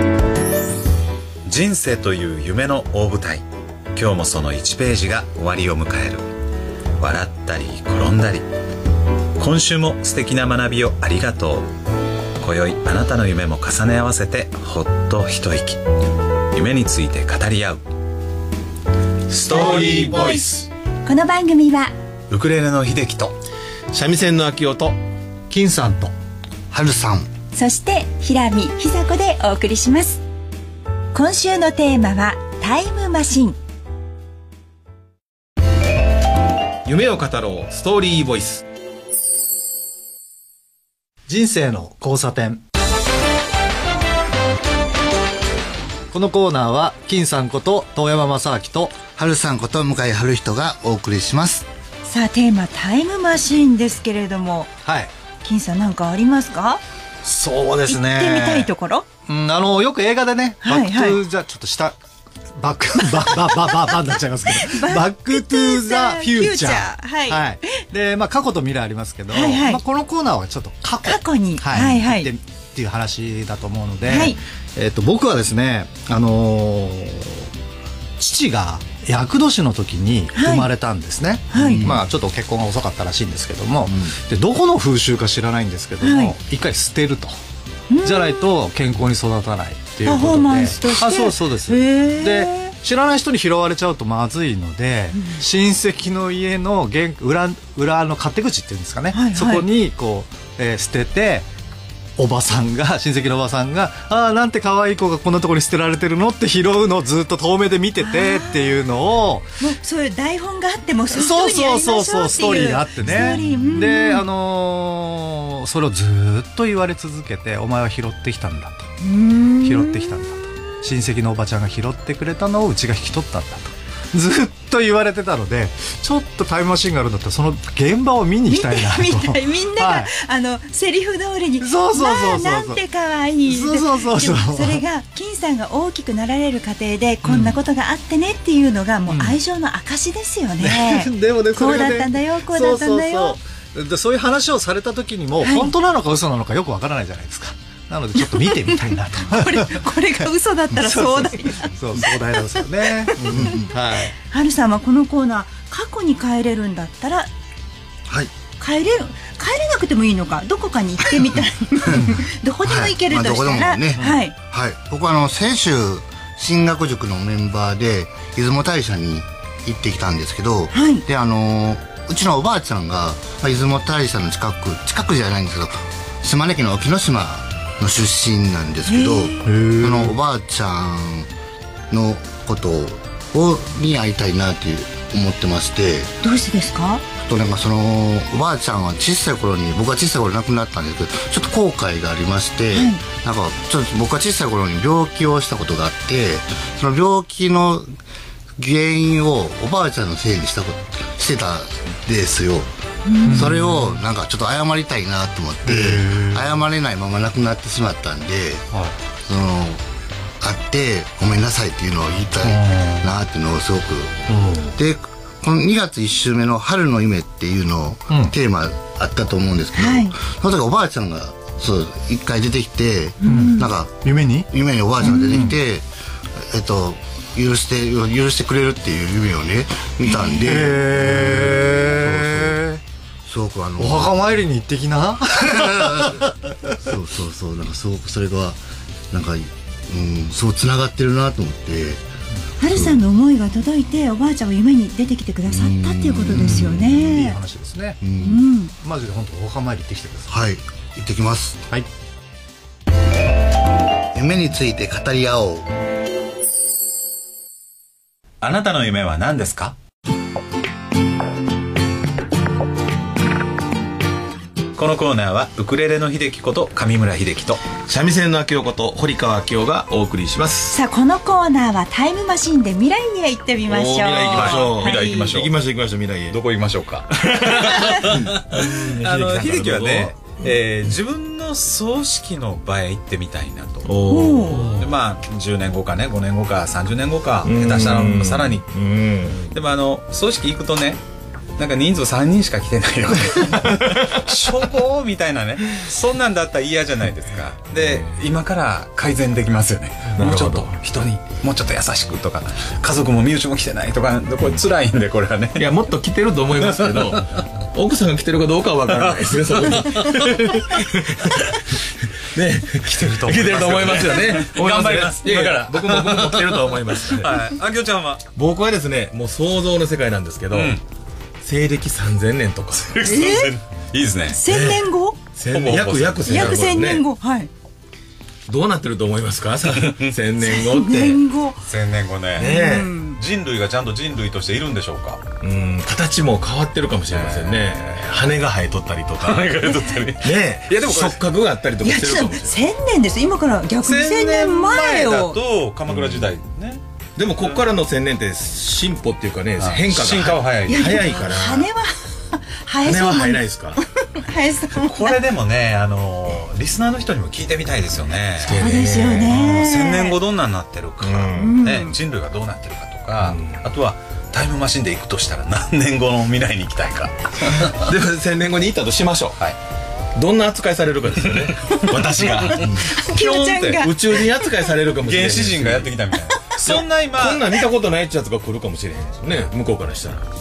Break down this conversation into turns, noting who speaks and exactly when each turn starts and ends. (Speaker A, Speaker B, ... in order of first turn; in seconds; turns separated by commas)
Speaker A: 1.5-3.4, Speaker A: 4.0-6.3, Speaker A: 7.0-8.5, Speaker A: 9.4-11.7, Speaker A: 12.4-15.8, Speaker A: 16.5-17.8, Speaker B: 19.3-20.7, Speaker C: 21.1-21.9, Speaker A: 22.3-23.4, Speaker B: 23.9-25.0, Speaker D: 25.5-26.1, Speaker E: 26.7-27.3, Speaker C: 27.5-30.2, Speaker C: 31.1-33.6, Speaker B: 36.9-38.6, Speaker D: 41.3-42.6, Speaker D: 46.1-49.0, Speaker E: 49.2-51.7, Speaker C: 52.0-54.7, Speaker D: 54.8-55.1, Speaker C: 55.4-56.8, Speaker D: 57.2-58.7, Speaker C: 57.9-59.1, Speaker D: 59.3-62.0, Speaker C: 60.6-61.2, Speaker D: 62.6-77.5, Speaker C: 63.2-67.8, Speaker C: 69.3-69.8, Speaker C: 71.0-72.3, Speaker C: 74.1-74.4, Speaker D: 78.2-87.3, Speaker C: 80.3-80.7, Speaker C: 81.5-82.0, Speaker E: 81.5-82.0, Speaker E: 83.9-84.1, Speaker C: 86.0-86.4, Speaker C: 87.9-88.4, Speaker D: 88.0-101.5, Speaker C: 90.0-92.7, Speaker C: 95.1-95.4, Speaker C: 99.1-99.7, Speaker D: 102.2-109.5, Speaker C: 108.0-108.7, Speaker C: 109.6-114.2, Speaker D: 111.1-118.9, Speaker C: 119.0-120.3, Speaker D: 119.6-130.1, Speaker C: 128.5-143.4, Speaker D: 131.6-132.8, Speaker D: 133.4-134.8, Speaker D: 137.2-137.6, Speaker D: 139.1-139.4, Speaker D: 140.6-149.9, Speaker C: 145.4-145.7, Speaker C: 148.4-153.5, Speaker D: 150.8-154.1, Speaker E: 153.2-153.7, Speaker C: 154.1-157.3, Speaker C: 158.6-164.3, Speaker D: 161.9-162.3, Speaker E: 162.6-181.3, Speaker D: 164.0-164.2, Speaker C: 170.7-171.1, Speaker C: 178.8-179.5, Speaker D: 179.4-180.2, Speaker E: 181.9-186.1, Speaker C: 186.2-187.0, Speaker E: 187.2-197.9, Speaker C: 192.7-193.0, Speaker E: 198.6-202.7, Speaker C: 203.1-203.4, Speaker D: 203.2-204.0, Speaker E: 203.3-209.8, Speaker D: 205.7-206.6, Speaker E: 210.4-214.2, Speaker D: 212.4-213.1, Speaker D: 214.3-214.7, Speaker E: 214.7-232.6, Speaker D: 218.1-218.4, Speaker C: 219.8-220.2, Speaker C: 223.2-223.7, Speaker D: 223.2-225.6, Speaker C: 225.1-225.4, Speaker D: 230.4-232.8, Speaker E: 233.3-234.2, Speaker D: 233.8-236.5, Speaker E: 235.6-236.1, Speaker E: 236.8-238.6, Speaker E: 239.1-242.0, Speaker C: 242.6-247.4, Speaker E: 242.6-243.0, Speaker E: 245.5-246.7, Speaker D: 246.3-248.1, Speaker E: 248.0-248.4, Speaker C: 248.2-248.7, Speaker D: 248.6-250.4, Speaker E: 250.3-251.6, Speaker E: 254.1-255.7, Speaker A: 258.4-259.8, Speaker A: 264.8-267.6, Speaker B: 267.9-270.8, Speaker C: 270.7-275.3, Speaker B: 273.6-276.4, Speaker A: 274.3-275.6, Speaker A: 276.3-284.0, Speaker B: 277.1-280.6, Speaker B: 283.9-284.9, Speaker C: 284.1-284.7, Speaker A: 284.5-288.7, Speaker B: 287.4-289.5, Speaker A: 289.5-291.0, Speaker A: 291.6-305.7, Speaker B: 300.1-300.8, Speaker B: 305.6-317.4, Speaker A: 306.6-307.4, Speaker A: 309.0-310.6, Speaker A: 312.7-318.2, Speaker B: 318.4-320.8, Speaker A: 320.5-320.8, Speaker B: 321.4-323.2, Speaker A: 322.7-324.4, Speaker C: 323.0-323.6, Speaker C: 324.3-325.2, Speaker B: 324.5-327.1, Speaker A: 325.5-326.4, Speaker C: 326.3-327.5, Speaker B: 328.5-331.2, Speaker A: 329.7-330.1, Speaker C: 330.4-331.6, Speaker A: 331.6-335.2, Speaker B: 332.3-332.9, Speaker C: 332.4-333.2, Speaker B: 335.4-339.6, Speaker A: 337.1-338.1, Speaker A: 339.2-341.2, Speaker C: 339.7-340.1, Speaker B: 340.2-342.7, Speaker C: 341.8-345.4, Speaker A: 343.8-347.7, Speaker B: 345.9-346.3, Speaker B: 347.2-351.7, Speaker A: 349.6-351.0, Speaker C: 350.7-355.2, Speaker B: 352.8-353.8, Speaker A: 354.8-358.6, Speaker B: 358.4-359.5, Speaker C: 358.6-360.2, Speaker A: 359.3-367.9, Speaker B: 361.0-361.6, Speaker C: 361.4-362.0, Speaker B: 363.2-363.6, Speaker B: 367.7-369.4, Speaker B: 370.1-372.9, Speaker A: 371.5-373.9, Speaker C: 372.9-374.7, Speaker B: 373.7-375.9, Speaker A: 375.0-377.6, Speaker C: 376.3-376.6, Speaker B: 376.6-380.3